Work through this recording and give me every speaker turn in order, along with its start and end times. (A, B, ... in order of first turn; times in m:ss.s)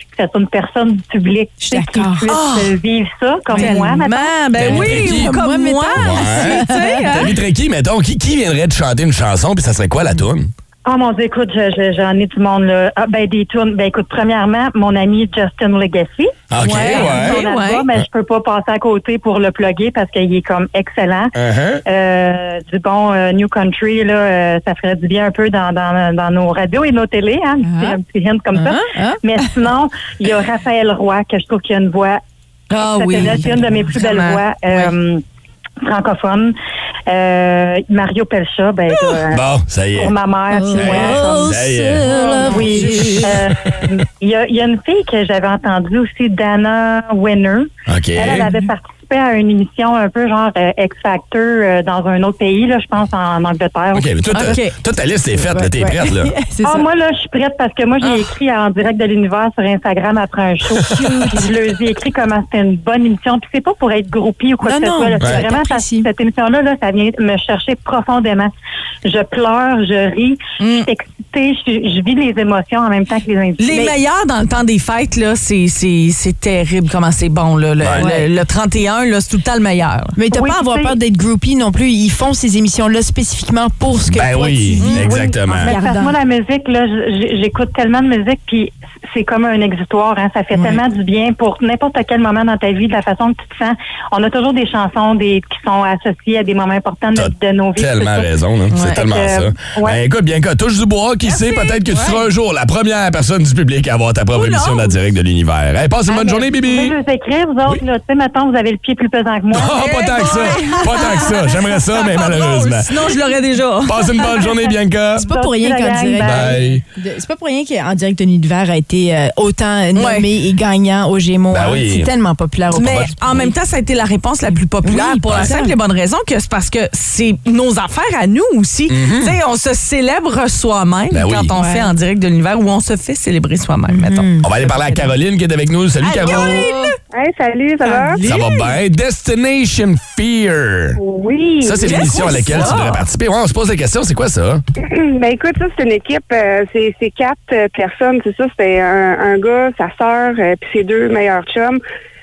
0:00.1-0:04.3 A
0:01.6-0:02.3 B
0:02.3-0:02.7 C
0:03.5-0:03.9 B
0:03.5-0:07.3 C
0:04.6-0:05.3 D
0:04.6-0:07.3 B
0:06.0-0:10.5 D
0:10.8-0:32.2 A
0:16.5-0:17.4 D
0:16.6-0:17.9 C
0:21.3-0:21.8 D
0:27.6-0:28.0 B
0:28.5-0:29.5 B
0:32.7-0:34.9 C
0:32.8-0:35.2 A
0:35.8-0:36.5 A
0:37.1-0:54.1 A
0:38.9-0:39.2 C
0:39.3-0:40.1 D
0:40.5-0:43.4 B
0:40.7-0:42.0 D
0:42.0-0:43.2 C
0:47.9-0:48.5 D
0:53.9-0:56.3 D
0:54.3-0:54.8 C
0:55.3-0:56.9 B
0:56.6-1:08.5 A
1:00.8-1:01.5 B
1:04.6-1:06.1 B
1:09.0-1:13.9 A
1:10.6-1:10.9 C
1:13.6-1:20.2 C
1:17.8-1:18.1 D
1:17.9-1:18.3 B
1:20.2-1:26.2 B
1:20.3-1:21.0 A
1:24.1-1:25.7 D
1:24.8-1:25.0 C
1:25.0-1:40.0 A
1:30.5-1:30.8 B
1:37.1-1:47.0 D
1:38.7-1:39.0 C
1:41.2-1:42.2 C
1:44.3-1:44.9 C
1:46.1-1:50.0 A
1:49.5-1:53.1 D
1:49.8-1:54.5 C
1:53.8-1:55.2 D
1:55.1-2:03.6 B
1:55.2-1:56.8 A
1:56.2-1:56.8 D
1:59.9-2:00.3 C
2:01.5-2:02.1 D
2:02.7-2:14.7 C
2:04.8-2:05.7 B
2:05.3-2:05.5 D
2:08.9-2:09.4 D
2:11.1-2:11.5 D
2:11.5-2:11.9 B
2:13.9-2:14.5 B
2:14.4-2:16.7 D
2:16.0-2:16.9 C
2:16.3-2:16.9 B
2:17.1-2:18.2 E
2:17.8-2:18.7 C
2:18.2-2:21.0 D
2:21.0-2:22.6 E
2:21.6-2:24.6 D
2:21.8-2:23.0 C
2:24.8-2:31.8 E